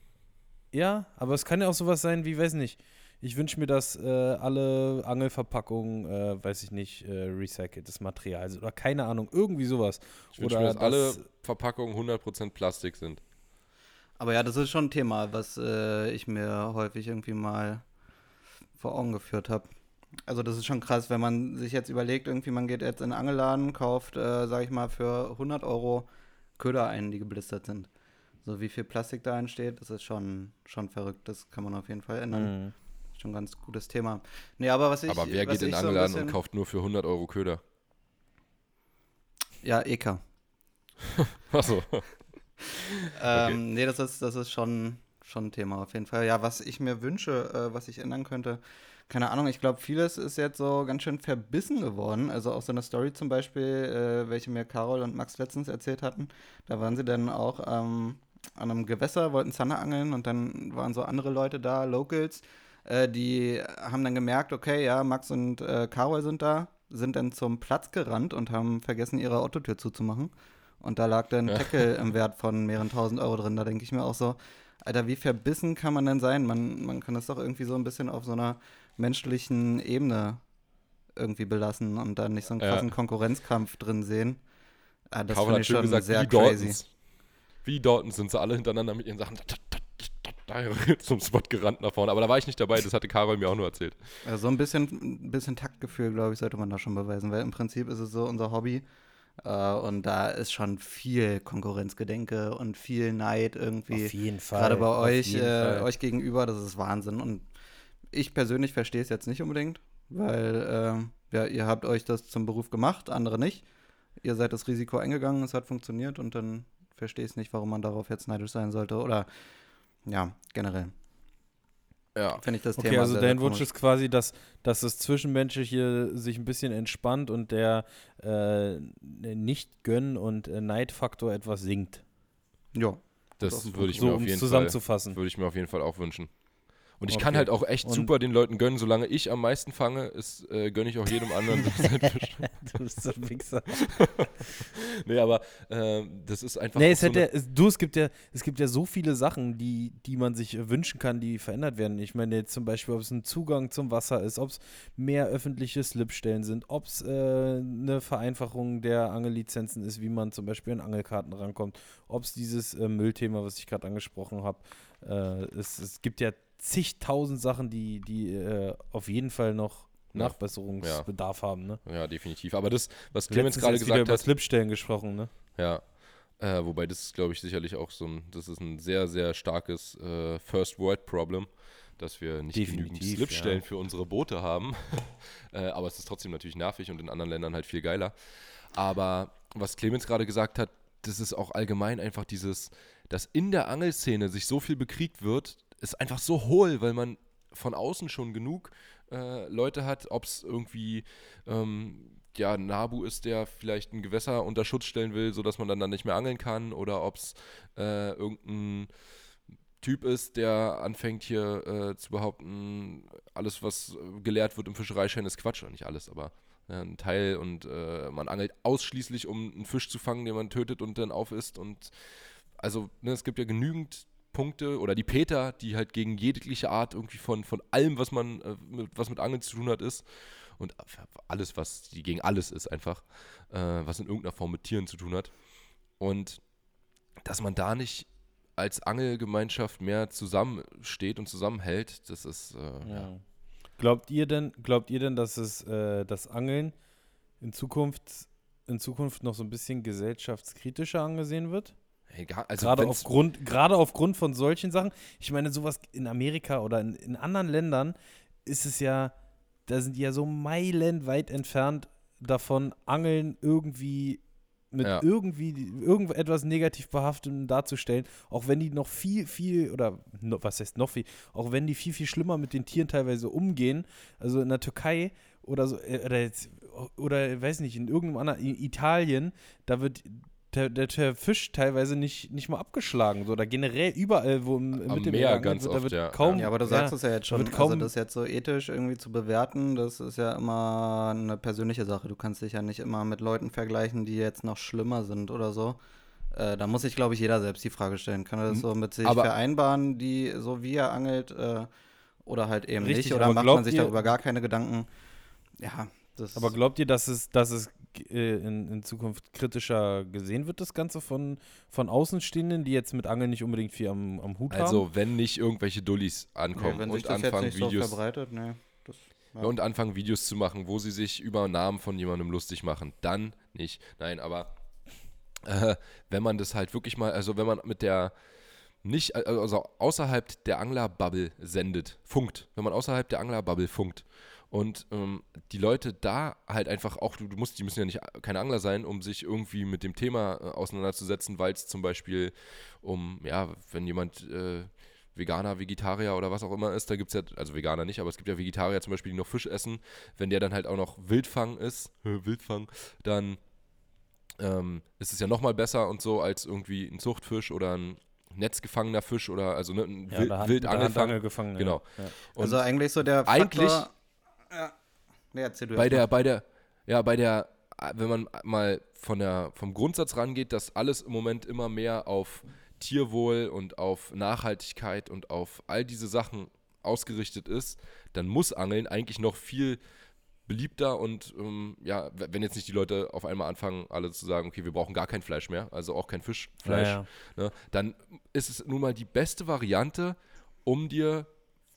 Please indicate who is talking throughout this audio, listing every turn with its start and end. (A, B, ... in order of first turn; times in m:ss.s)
0:00.7-0:11.2 A
0:10.4-0:13.2 B
0:14.2-0:17.8 C
0:18.8-0:19.7 C
0:20.3-0:27.9 C
0:28.4-0:32.5 C
0:32.3-0:32.7 A
0:33.2-0:36.4 C
0:35.1-0:37.6 B
0:39.6-0:40.2 C
0:41.5-0:42.1 B
0:42.7-0:43.6 B
0:43.1-1:20.4 C
1:21.2-1:24.4 C
1:22.6-1:22.9 B
1:25.1-1:26.8 C
1:25.3-1:26.9 B
1:27.6-1:34.0 B
1:34.2-1:38.9 C
1:39.4-1:47.4 C
1:43.9-1:45.9 A
1:48.1-1:53.6 C
1:54.2-1:59.3 C
2:00.0-2:00.9 C
2:02.1-2:02.4 B
2:02.4-2:03.7 C
2:02.8-2:12.0 A
2:12.7-2:14.2 C
2:13.4-2:16.3 B
2:13.9-2:15.2 A
2:17.0-2:22.4 B
2:17.1-2:18.1 A
2:21.6-2:23.9 A
2:23.8-2:27.3 B
2:26.7-2:51.8 A
2:50.1-2:51.2 B
2:51.8-2:54.3 B
2:53.3-2:55.3 A
2:55.6-3:08.1 B
3:02.5-3:03.6 A
3:08.7-3:28.9 B
3:29.8-3:41.9 B
3:42.6-3:55.3 B
3:56.0-3:56.4 B
3:57.2-4:03.1 B
4:02.8-4:03.2 A
4:03.8-4:06.7 A
4:07.4-4:11.7 A
4:12.1-4:13.1 B
4:12.6-4:19.1 A
4:19.7-4:47.9 A
4:44.8-4:46.5 B
4:46.3-4:55.8 C
4:56.3-5:01.7 C
4:58.5-4:59.3 B
5:02.2-5:04.9 C
5:02.8-5:04.0 A
5:05.6-5:06.5 C
5:06.3-5:14.8 A
5:14.5-5:17.9 B
5:16.5-5:19.5 C
5:19.4-5:24.5 B
5:25.4-5:28.1 B
5:28.8-5:53.4 B
5:54.4-6:03.9 B
6:00.1-6:02.1 A
6:02.4-6:03.9 C
6:04.5-6:04.7 C
6:05.3-6:06.0 C
6:05.7-6:19.8 B
6:20.4-6:31.3 B
6:26.6-6:27.0 A